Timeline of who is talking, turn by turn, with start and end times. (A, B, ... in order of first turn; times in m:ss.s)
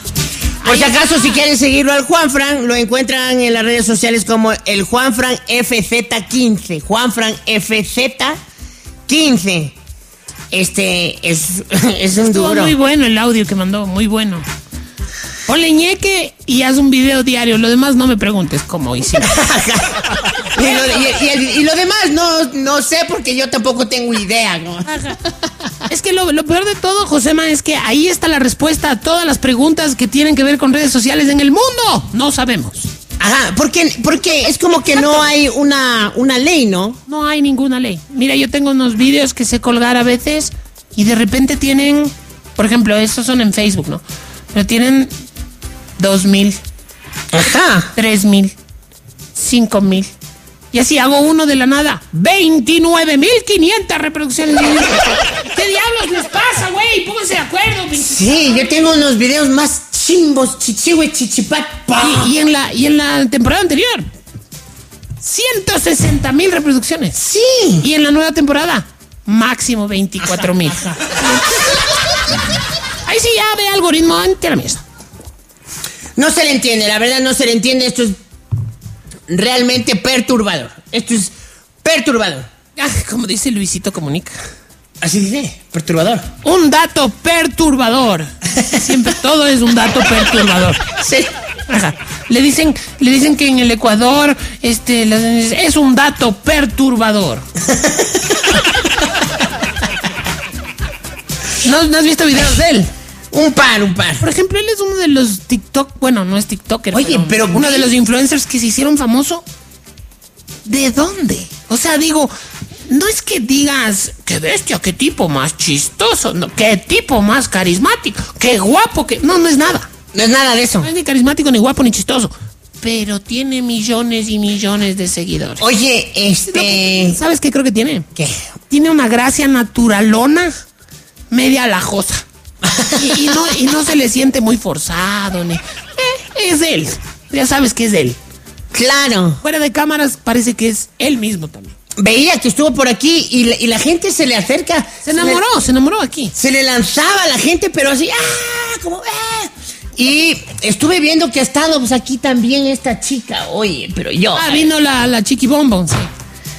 0:00.6-0:01.3 A
0:00.6-0:08.4 B
0:09.1-0:09.8 B
0:10.5-0:12.7 B
0:12.2-0:14.5 A
0:15.5-0:19.4 A
0:19.2-0:24.9 B
0:24.8-0:25.2 A
0:25.8-0:32.9 A
0:33.2-0:37.0 B
0:37.1-0:45.1 A
0:46.0-0:46.6 A
0:47.3-0:47.9 B
0:47.9-0:48.6 A
0:49.3-0:50.1 A
0:50.7-0:58.7 A
0:58.0-1:02.3 B
1:02.0-1:04.1 A
1:05.2-1:07.2 A
1:07.2-1:07.9 B
1:07.8-1:11.8 A
1:10.2-1:11.3 B
1:13.0-1:14.8 A
1:16.2-1:18.2 B
1:19.3-1:21.3 B
1:21.8-1:22.5 B
1:22.8-1:24.4 A
1:25.0-1:26.3 B
1:26.4-1:31.0 A
1:31.0-1:31.3 B
1:31.7-1:37.5 A
1:37.7-1:38.4 B
1:41.6-1:42.9 A
1:43.3-1:44.2 B
1:44.2-1:49.4 A
1:46.9-1:47.9 B
1:50.6-1:52.3 A
1:52.9-1:59.9 A
2:00.1-2:00.9 B
2:00.8-2:05.6 A
2:05.6-2:07.2 B
2:06.5-2:08.1 A
2:08.7-2:10.5 A
2:11.3-2:12.2 A
2:12.6-2:13.4 B
2:12.9-2:18.2 A
2:18.7-2:19.4 B
2:19.4-2:21.8 A
2:22.0-2:25.4 B
2:25.0-2:26.3 A
2:26.3-2:34.7 B
2:34.3-2:36.1 A